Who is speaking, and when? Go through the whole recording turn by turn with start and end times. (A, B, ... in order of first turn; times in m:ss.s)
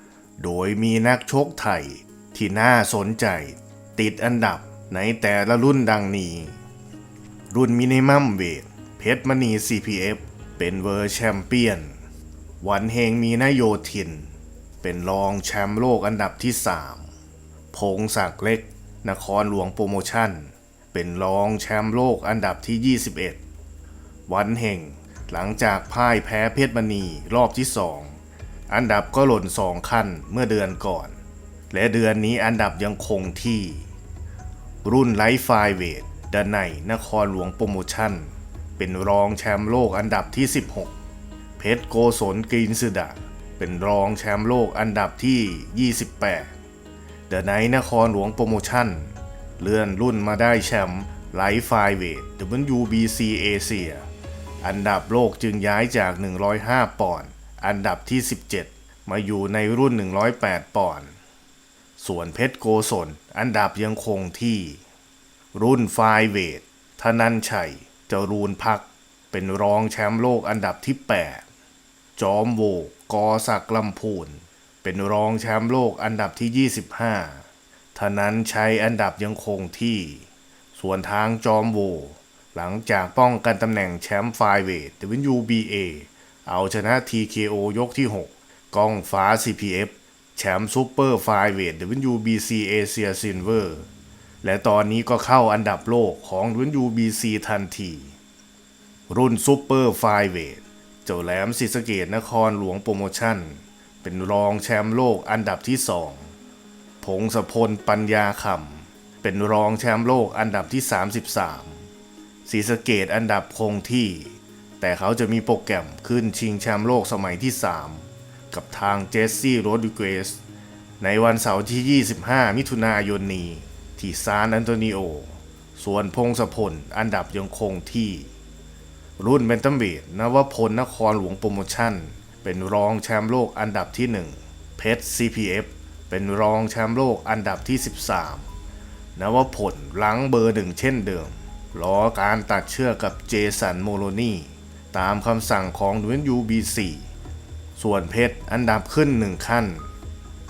0:00.4-0:06.6 A
0:07.5-0:12.0 A
0:12.6-0:17.1 A
0:17.7-0:23.4 A
0:24.3-0:31.2 A
0:31.7-0:33.9 A
0:34.8-0:40.9 A
0:41.6-0:46.5 A
0:47.3-0:54.1 A
0:54.6-1:01.1 A
1:02.0-1:04.8 A
1:05.5-1:11.4 A
1:12.2-1:33.9 A
1:34.4-1:38.2 A
1:39.1-1:46.3 A
1:47.0-1:51.9 A
1:52.4-2:00.4 A
2:01.0-2:08.3 A
2:09.2-2:18.5 A
2:19.2-2:27.1 A
2:27.8-2:29.9 A